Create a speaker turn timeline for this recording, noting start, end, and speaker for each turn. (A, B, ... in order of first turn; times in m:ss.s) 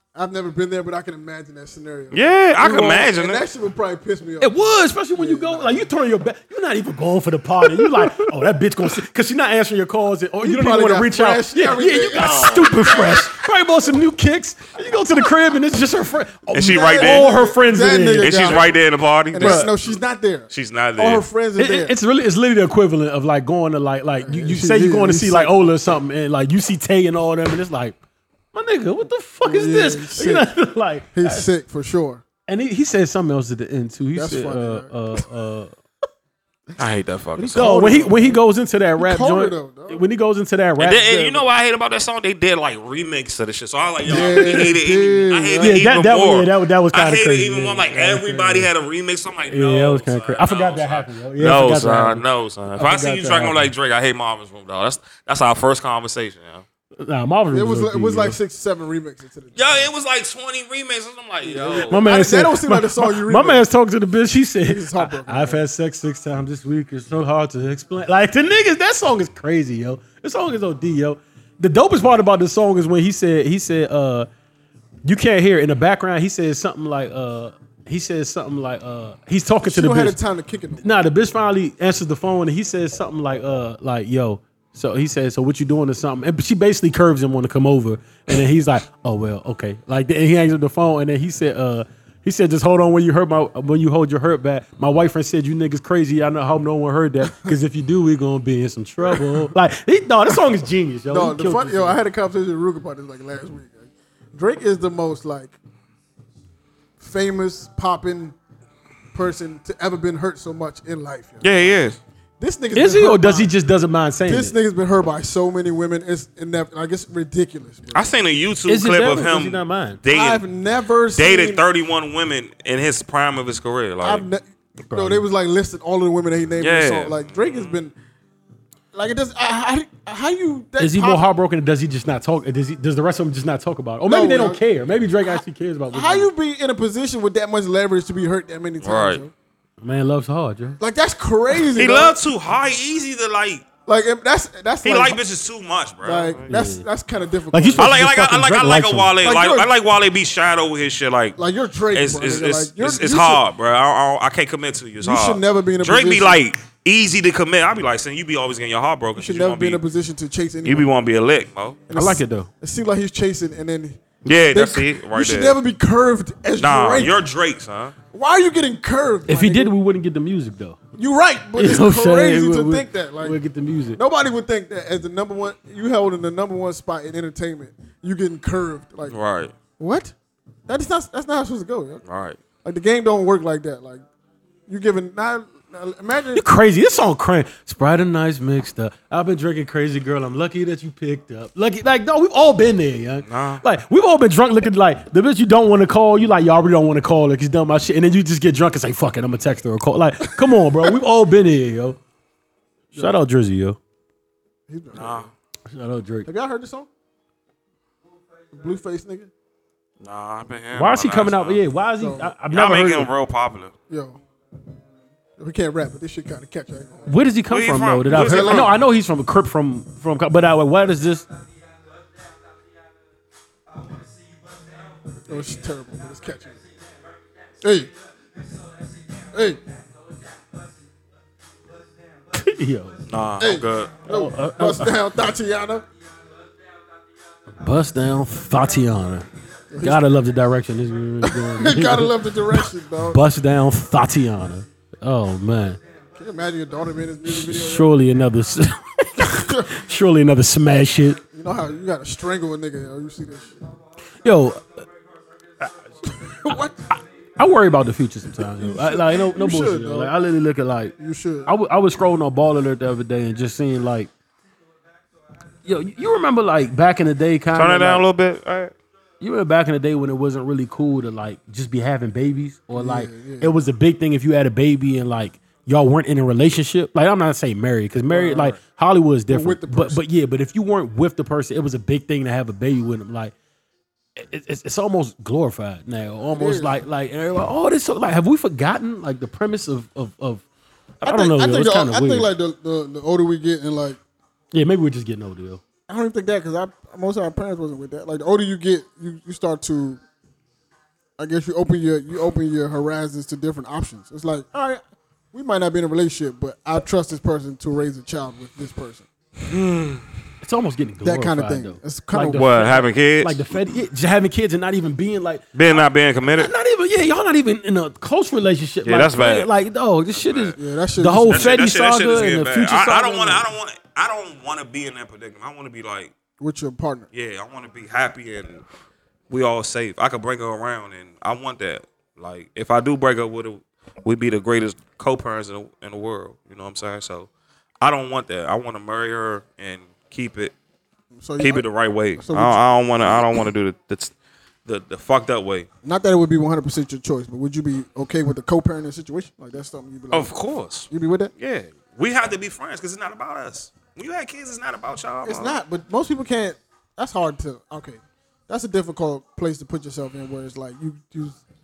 0:00.1-0:05.9 A
0:02.1-0:03.4 B
0:04.4-0:18.6 C
0:07.8-0:08.1 A
0:10.4-0:13.4 A
0:16.5-0:17.3 B
0:16.7-0:18.8 A
0:18.2-0:20.0 B
0:19.3-0:21.9 A
0:19.4-0:19.7 C
0:20.5-0:21.2 B
0:21.6-0:28.0 C
0:24.2-0:25.7 A
0:28.5-0:31.5 C
0:29.4-0:30.5 A
0:31.1-0:32.2 A
0:32.5-0:35.7 C
0:34.1-0:34.9 A
0:36.8-0:38.1 B
0:37.4-0:38.4 A
0:37.4-0:41.4 C
0:39.0-0:40.0 A
0:40.8-0:56.6 B
0:41.1-0:41.4 A
0:44.0-0:45.8 A
0:44.1-0:44.7 C
0:45.6-0:48.7 C
0:49.4-0:53.7 C
0:57.0-0:58.4 C
0:57.5-0:59.9 A
0:59.6-1:02.0 B
1:01.4-1:03.7 A
1:01.9-1:14.3 C
1:04.6-1:05.6 A
1:15.0-1:20.2 C
1:19.6-1:21.0 A
1:20.8-1:42.0 C
1:39.1-1:39.4 A
1:41.1-1:45.6 A
1:47.0-1:48.4 A
1:49.1-1:51.8 A
1:51.4-1:52.0 B
1:52.4-1:53.5 A
1:52.7-1:54.5 C
1:54.2-1:58.2 A
1:57.9-2:00.4 B
1:58.7-2:00.0 C
2:00.1-2:01.6 A
2:01.1-2:04.2 B
2:04.0-2:07.9 A
2:04.9-2:05.2 C
2:06.6-2:07.7 B
2:08.9-2:11.3 A
2:10.8-2:16.3 C
2:14.0-2:14.6 A
2:15.9-2:19.3 A
2:18.8-2:19.2 B
2:19.8-2:20.8 C
2:20.8-2:22.2 A
2:21.7-2:23.6 B
2:23.9-2:25.2 A
2:24.8-2:26.5 B
2:26.0-2:28.1 A
2:26.5-2:26.9 C
2:27.5-2:29.1 C
2:27.8-2:31.4 B
2:29.2-2:29.7 A
2:31.4-2:33.4 A
2:31.9-2:39.8 B
2:35.0-2:36.4 A
2:39.1-2:40.9 A
2:40.6-2:41.8 B
2:41.9-2:47.2 A
2:41.9-2:42.5 C
2:44.2-2:45.6 B
2:46.6-2:47.9 B
2:48.1-2:49.7 A
2:49.3-2:50.8 C
2:50.9-2:53.4 A
2:51.6-2:54.0 C
2:53.9-2:59.2 A
2:59.1-2:59.5 B
2:59.8-3:00.1 A
3:00.7-3:02.0 A
3:02.0-3:02.4 B
3:02.6-3:04.0 A
3:04.7-3:06.5 A
3:06.3-3:22.0 C
3:13.2-3:13.6 B
3:22.9-3:23.2 A
3:22.9-3:23.8 C
3:24.7-3:25.3 A
3:24.9-3:25.3 B
3:25.7-3:26.3 C
3:26.2-3:26.9 A
3:28.5-3:29.3 A
3:30.0-3:31.6 B
3:30.7-3:33.1 C
3:32.0-3:32.3 A
3:32.5-3:33.7 B
3:33.9-3:34.2 A
3:35.4-3:37.2 A
3:37.1-3:41.2 C
3:37.5-3:38.7 B
3:38.0-3:38.7 A
3:45.2-3:46.6 A
3:47.6-3:47.9 A
3:49.3-3:49.6 A
3:52.3-3:53.0 C
3:53.1-3:54.0 B
3:53.4-3:55.9 A
3:54.0-3:55.0 C
3:57.6-3:59.3 C
3:59.7-4:00.1 A
3:59.8-4:05.8 C
4:01.2-4:03.3 A
4:06.1-4:07.9 A
4:07.2-4:11.2 C
4:09.2-4:09.7 A
4:11.2-4:13.6 A
4:14.2-4:14.8 C
4:16.2-4:16.8 A
4:16.9-4:20.9 C
4:18.6-4:20.1 A
4:21.0-4:21.5 A
4:21.4-4:24.1 C
4:25.6-4:28.0 C
4:27.5-4:28.7 B
4:29.2-4:43.3 C
4:32.7-4:33.6 A
4:38.1-4:38.6 A
4:39.3-4:40.0 A
4:44.2-4:50.4 C
4:46.3-4:46.8 A
4:51.0-4:52.3 C
4:51.0-4:54.0 A
4:54.5-4:55.6 C
4:55.9-5:00.0 A
5:01.2-5:04.8 A
5:05.3-5:09.1 A
5:09.5-5:10.1 B
5:10.4-5:23.4 C
5:11.0-5:12.5 A
5:12.3-5:13.6 B
5:15.5-5:16.5 B
5:18.8-5:19.5 B
5:20.1-5:20.6 B
5:20.6-5:21.6 A
5:21.3-5:26.1 B
5:26.4-5:27.1 A
5:27.1-5:28.6 B
5:29.3-5:37.3 B
5:37.8-5:40.5 B
5:41.1-5:43.4 A
5:41.4-5:44.1 B
5:44.6-5:45.7 B
5:45.8-5:50.3 A
5:50.1-5:55.6 B
5:50.9-5:51.3 A
5:55.2-6:01.4 A